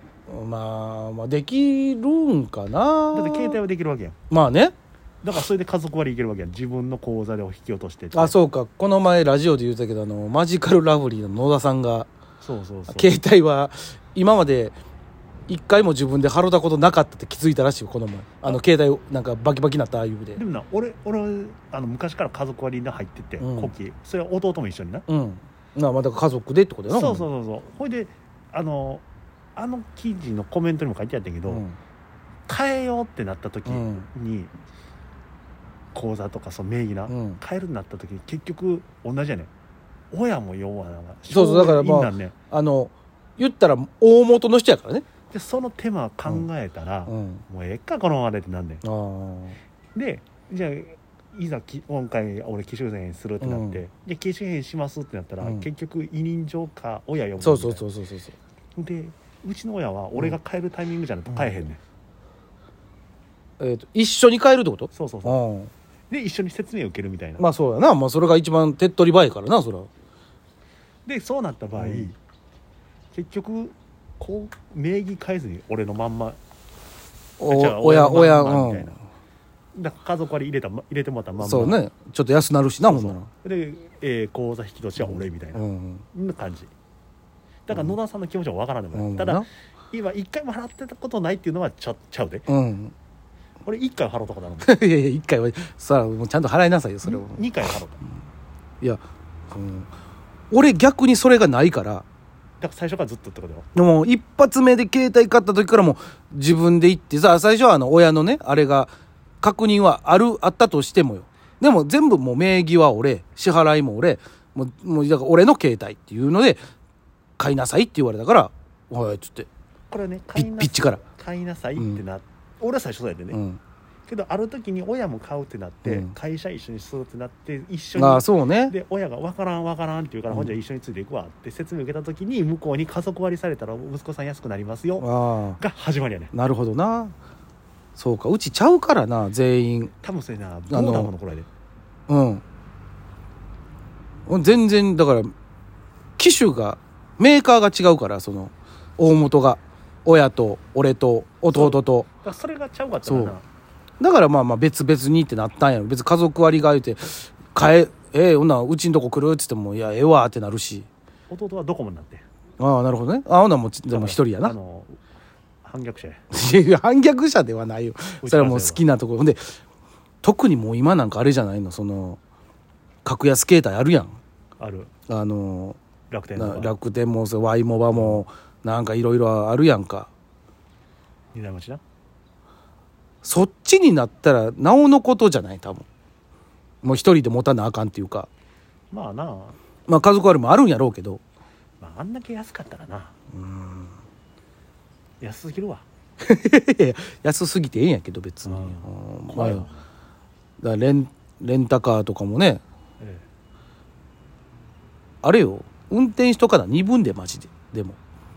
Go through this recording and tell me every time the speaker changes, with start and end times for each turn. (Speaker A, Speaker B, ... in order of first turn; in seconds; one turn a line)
Speaker A: 0.3-3.6
Speaker B: 3.1-4.2
Speaker A: 4.3-4.7
Speaker B: 5.2-8.3
Speaker A: 8.1-12.1
Speaker B: 12.4-13.1
Speaker A: 12.9-14.7
Speaker A: 15.5-20.4
Speaker B: 20.3-25.1
Speaker A: 23.4-23.7
Speaker A: 25.1-27.2
Speaker B: 26.9-29.0
Speaker B: 29.6-31.6
Speaker A: 31.5-31.7
Speaker B: 32.5-34.5
Speaker A: 33.6-34.1
Speaker B: 35.9-39.5
Speaker A: 37.1-37.4
Speaker B: 40.1-42.3
Speaker A: 41.3-45.0
Speaker B: 45.3-48.8
Speaker A: 47.1-47.4
Speaker A: 48.8-49.6
Speaker B: 49.9-57.8
Speaker A: 53.4-53.8
Speaker A: 57.4-58.4
Speaker B: 58.8-61.8
Speaker A: 63.6-65.7
Speaker B: 64.9-65.4
Speaker B: 66.1-67.4
Speaker A: 67.4-69.9
Speaker B: 71.0-72.2
Speaker A: 71.8-72.1
Speaker B: 73.1-76.4
Speaker A: 77.4-79.0
Speaker B: 77.5-79.0
Speaker B: 79.7-81.8
Speaker A: 81.4-83.3
Speaker B: 82.8-85.6
Speaker A: 85.0-86.0
Speaker B: 86.1-86.7
Speaker B: 87.7-92.5
Speaker A: 88.9-89.5
Speaker A: 92.5-92.9
Speaker B: 93.6-94.7
Speaker A: 94.6-97.4
Speaker B: 97.0-98.0
Speaker A: 98.8-99.9
Speaker A: 100.5-102.0
Speaker B: 102.6-103.7
Speaker A: 103.7-116.6
Speaker A: 117.4-119.5
Speaker B: 119.9-123.4
Speaker A: 120.3-121.0
Speaker A: 121.8-122.0
Speaker A: 123.3-123.6
Speaker B: 124.1-136.3
Speaker A: 125.8-126.1
Speaker A: 127.9-128.7
Speaker A: 135.0-135.6
Speaker A: 136.3-137.1
Speaker A: 137.9-139.9
Speaker B: 140.0-141.5
Speaker A: 140.7-141.1
Speaker A: 142.1-142.4
Speaker A: 144.3-145.3
Speaker A: 146.2-152.1
Speaker B: 151.5-153.4
Speaker A: 153.0-153.3
Speaker A: 154.0-160.9
Speaker B: 161.3-162.2
Speaker A: 162.6-164.5
Speaker B: 163.9-165.0
Speaker B: 165.6-166.2
Speaker A: 166.3-169.5
Speaker B: 168.2-168.8
Speaker A: 170.2-172.2
Speaker A: 173.0-174.2
Speaker B: 174.6-174.9
Speaker A: 175.1-175.8
Speaker B: 176.1-176.8
Speaker A: 176.3-180.1
Speaker B: 177.9-178.2
Speaker B: 181.3-181.8
Speaker A: 183.2-185.9
Speaker A: 186.8-188.3
Speaker B: 188.9-189.6
Speaker A: 189.9-191.2
Speaker B: 191.8-193.1
Speaker A: 193.3-193.9
Speaker B: 195.2-195.8
Speaker A: 196.2-199.7
Speaker B: 198.4-199.8
Speaker A: 200.6-202.6
Speaker A: 205.2-208.0